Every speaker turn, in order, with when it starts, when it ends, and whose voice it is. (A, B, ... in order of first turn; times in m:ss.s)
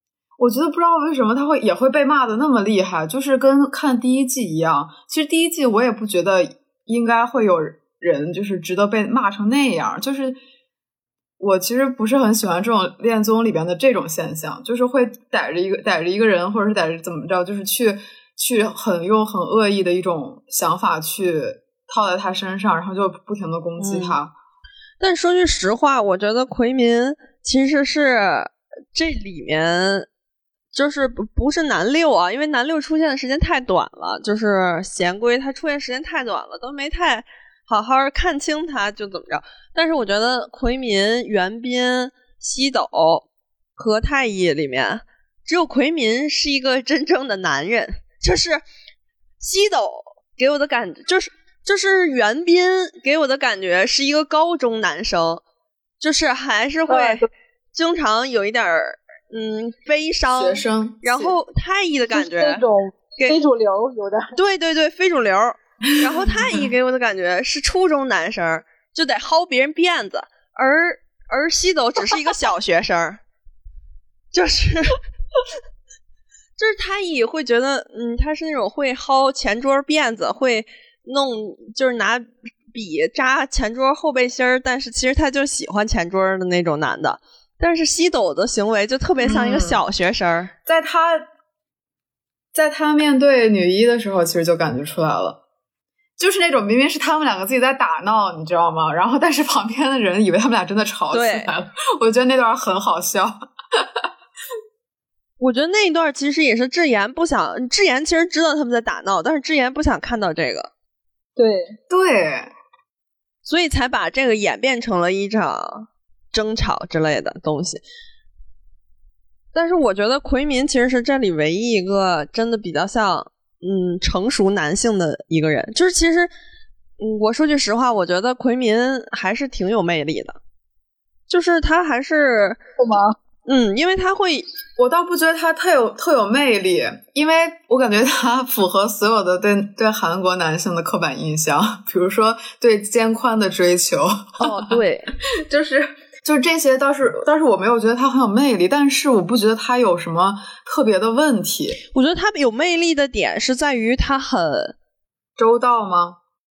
0:00.4-0:10.4 A
0:11.4-0:24.4 A
0:23.8-0:24.2 B
0:25.0-0:30.1 B
0:30.7-0:43.3 B
0:43.8-0:48.6 B
0:49.4-0:55.4 B
0:56.0-1:02.6 B
0:56.9-0:57.3 C
1:00.3-1:01.4 A
1:02.1-1:04.4 C
1:04.4-1:13.2 B
1:06.0-1:06.7 A
1:14.3-1:15.0 B
1:16.6-1:30.5 B
1:29.2-1:29.8 A
1:30.7-1:31.3 A
1:32.5-1:35.4 A
1:36.2-1:44.0 A
1:41.1-1:41.5 B
1:45.4-1:50.7 B
1:51.4-1:51.8 C
1:51.9-1:52.5 A
1:53.4-1:57.8 B
1:59.5-2:06.3 B
2:07.0-2:10.4 B
2:11.3-2:12.6 B
2:12.8-2:13.2 C
2:13.5-2:14.5 B
2:14.8-2:31.8 A
2:24.4-2:25.1 B
2:31.9-2:34.8 B
2:35.4-2:36.2 A